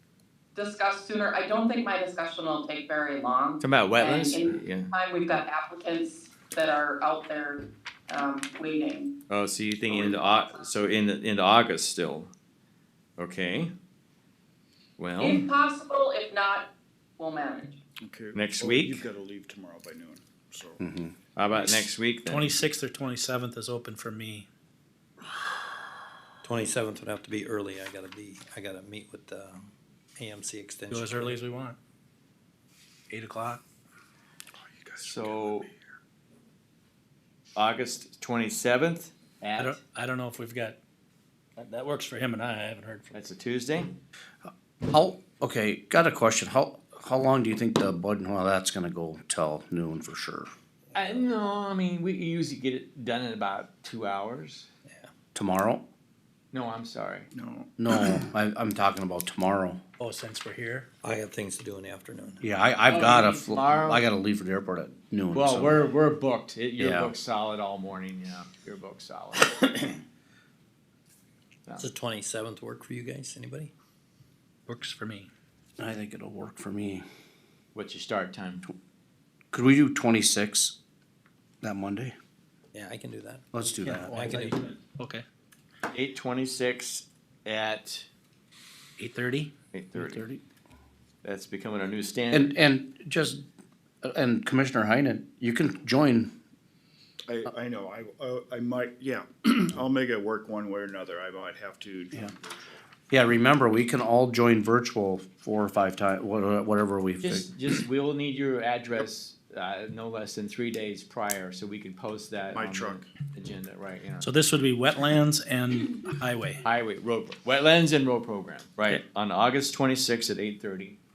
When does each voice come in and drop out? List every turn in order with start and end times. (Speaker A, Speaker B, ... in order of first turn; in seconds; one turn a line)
Speaker A: 0.5-9.1
Speaker B: 3.6-4.9
Speaker B: 9.3-12.3
Speaker B: 13.2-13.7
Speaker B: 15.0-15.5
Speaker A: 15.2-17.8
Speaker C: 18.0-20.8
Speaker B: 18.3-19.0
Speaker D: 20.8-21.1
Speaker B: 21.4-22.6
Speaker E: 22.2-24.5
Speaker F: 26.4-31.4
Speaker E: 30.9-31.8
Speaker E: 33.1-33.6
Speaker C: 34.5-35.8
Speaker B: 35.0-35.7
Speaker B: 37.5-39.8
Speaker E: 39.6-40.8
Speaker E: 41.6-43.2
Speaker B: 43.1-44.0
Speaker D: 44.8-50.5
Speaker F: 50.9-51.3
Speaker B: 50.9-54.7
Speaker D: 55.3-55.8
Speaker B: 56.5-57.3
Speaker C: 57.3-57.7
Speaker D: 57.8-59.8
Speaker E: 60.0-60.9
Speaker F: 61.0-62.5
Speaker D: 62.4-66.0
Speaker B: 62.9-64.1
Speaker B: 65.3-69.9
Speaker D: 66.8-67.1
Speaker F: 71.8-73.7
Speaker E: 74.7-75.3
Speaker D: 75.8-77.0
Speaker B: 77.7-78.7
Speaker D: 79.5-80.8
Speaker D: 81.6-82.1
Speaker F: 82.7-84.6
Speaker D: 83.5-84.1
Speaker E: 83.8-85.2
Speaker B: 85.9-88.1
Speaker E: 89.0-89.5
Speaker B: 89.7-90.2
Speaker D: 89.9-90.4
Speaker B: 91.2-92.5
Speaker D: 92.3-93.4
Speaker D: 94.0-96.3
Speaker C: 97.3-102.8
Speaker D: 103.1-107.5
Speaker B: 107.2-114.3
Speaker C: 112.5-113.1
Speaker E: 114.2-116.6
Speaker B: 116.6-121.0